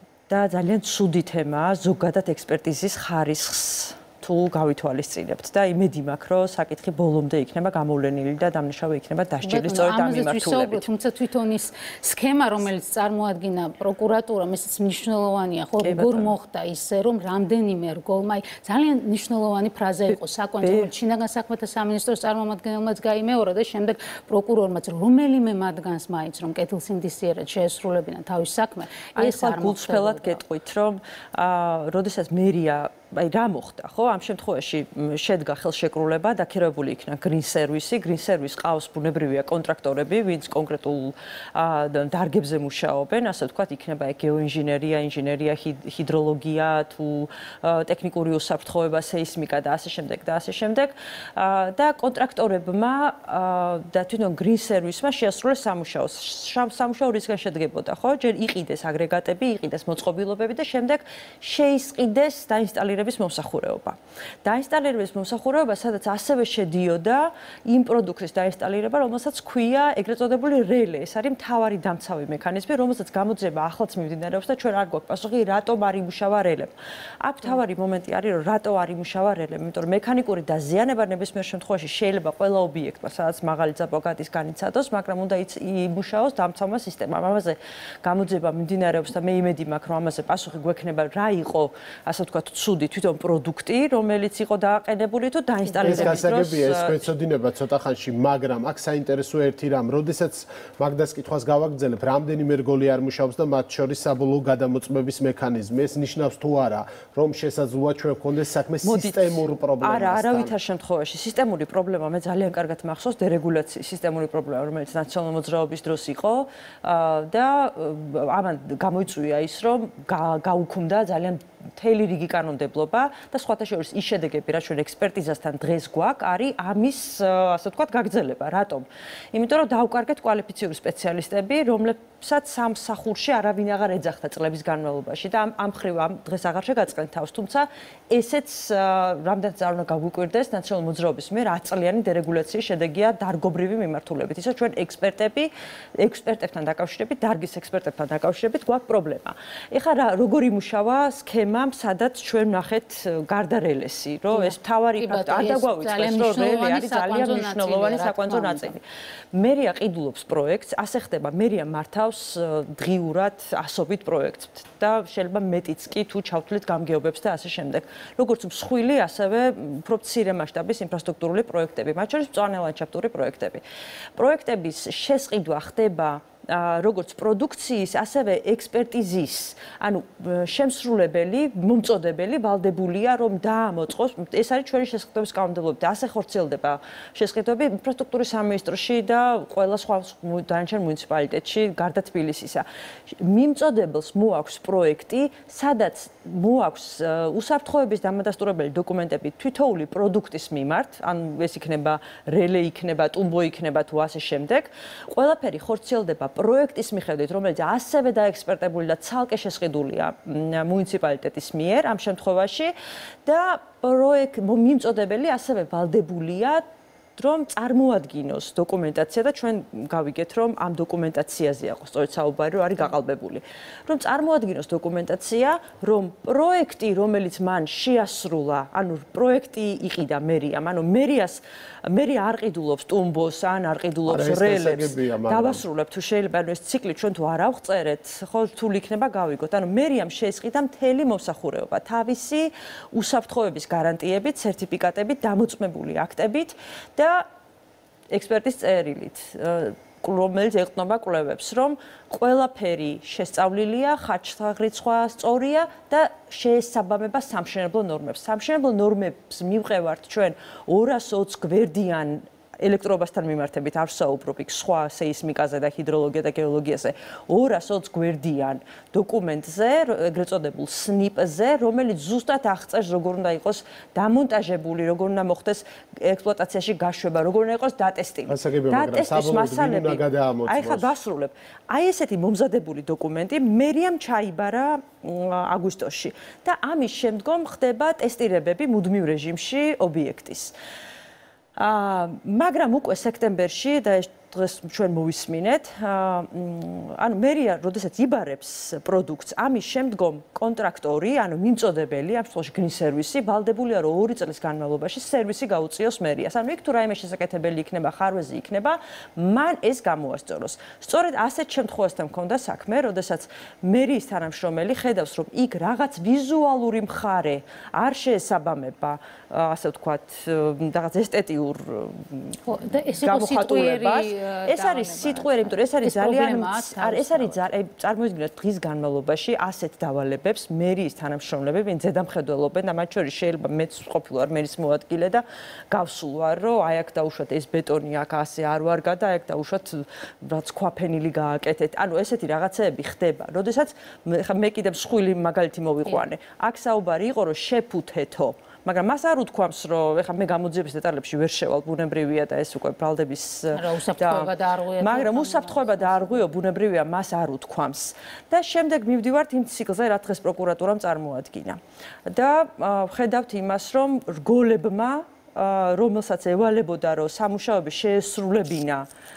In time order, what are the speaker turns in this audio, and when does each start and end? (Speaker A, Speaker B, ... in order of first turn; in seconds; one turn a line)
Speaker A: 0.3-10.8
Speaker B: 9.4-30.4
Speaker A: 15.8-16.3
Speaker A: 20.1-20.9
Speaker A: 29.1-97.0
Speaker B: 95.8-96.1
Speaker C: 95.8-110.5
Speaker A: 108.8-173.6
Speaker B: 154.3-158.7
Speaker A: 174.2-212.7
Speaker A: 213.2-216.6
Speaker A: 217.2-247.2
Speaker C: 234.1-235.6
Speaker A: 248.1-290.5
Speaker C: 278.3-280.9
Speaker A: 291.6-322.4
Speaker B: 322.5-327.4
Speaker A: 323.0-368.9
Speaker B: 353.5-356.3